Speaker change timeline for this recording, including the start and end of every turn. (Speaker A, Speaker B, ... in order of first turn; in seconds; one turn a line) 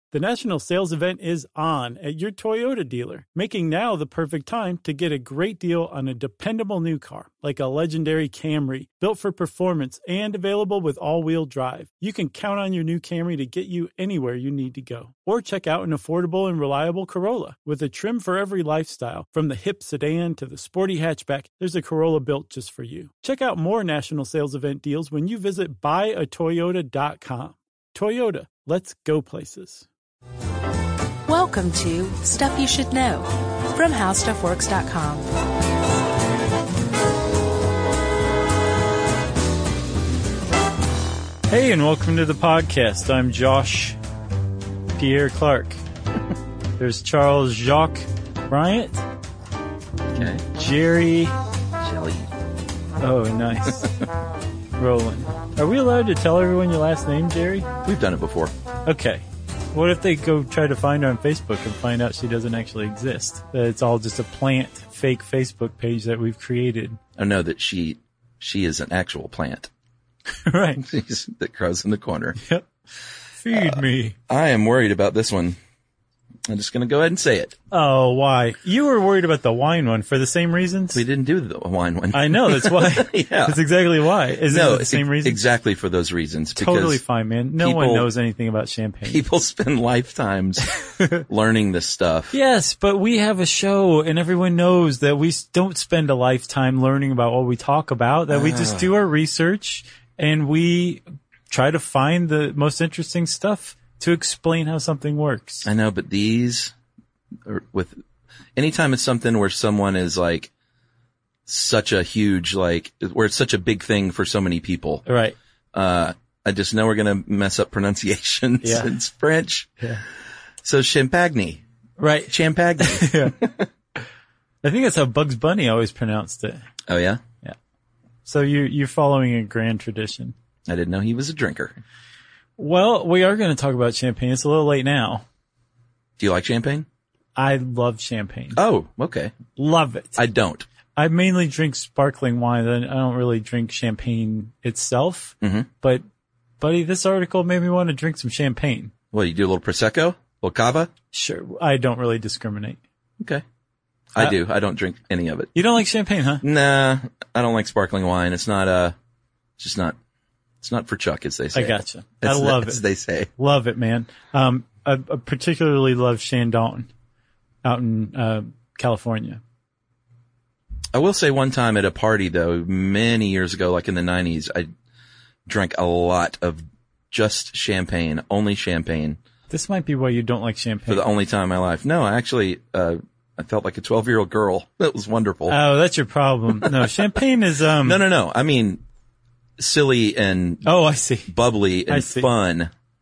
Speaker A: 0.1-29.9
Speaker B: 31.3-35.3
Speaker A: 41.5-44.0
Speaker A: 45.0-45.8
Speaker A: 46.8-49.0
Speaker C: 50.1-50.4
Speaker A: 50.2-51.4
Speaker C: 51.8-52.3
Speaker A: 53.0-53.9
Speaker A: 54.8-57.7
Speaker C: 57.8-58.5
Speaker A: 58.9-67.0
Speaker C: 67.2-69.7
Speaker A: 70.5-70.8
Speaker C: 70.8-72.4
Speaker A: 72.4-72.7
Speaker A: 73.4-74.2
Speaker C: 73.5-75.6
Speaker C: 76.5-77.5
Speaker A: 77.7-81.0
Speaker C: 80.9-83.6
Speaker A: 82.1-85.4
Speaker C: 84.5-87.0
Speaker A: 86.6-89.2
Speaker C: 87.6-88.1
Speaker C: 89.1-92.4
Speaker A: 92.3-105.7
Speaker C: 98.3-98.9
Speaker C: 105.6-106.7
Speaker C: 107.5-108.0
Speaker C: 108.6-110.5
Speaker C: 111.5-115.0
Speaker A: 115.1-115.4
Speaker C: 115.7-119.7
Speaker A: 118.6-118.9
Speaker C: 120.6-121.6
Speaker A: 122.0-123.5
Speaker C: 122.3-123.6
Speaker A: 124.6-126.6
Speaker C: 126.9-127.2
Speaker A: 128.3-130.3
Speaker C: 130.7-131.8
Speaker A: 132.6-135.2
Speaker C: 136.2-136.9
Speaker A: 137.4-138.6
Speaker C: 138.5-139.3
Speaker A: 139.6-140.2
Speaker C: 140.2-140.7
Speaker A: 141.0-146.0
Speaker C: 145.4-145.7
Speaker A: 146.6-148.9
Speaker C: 149.1-150.9
Speaker A: 151.1-152.8
Speaker C: 154.1-155.5
Speaker A: 155.6-156.4
Speaker C: 156.4-158.9
Speaker C: 159.6-160.0
Speaker C: 160.6-163.3
Speaker A: 161.5-162.8
Speaker A: 163.4-166.9
Speaker A: 167.6-169.4
Speaker C: 170.9-174.7
Speaker C: 175.5-179.2
Speaker A: 179.5-181.1
Speaker C: 180.9-185.6
Speaker A: 185.5-188.0
Speaker C: 187.8-188.8
Speaker C: 189.6-190.7
Speaker A: 190.6-191.3
Speaker C: 191.3-192.7
Speaker A: 191.9-192.3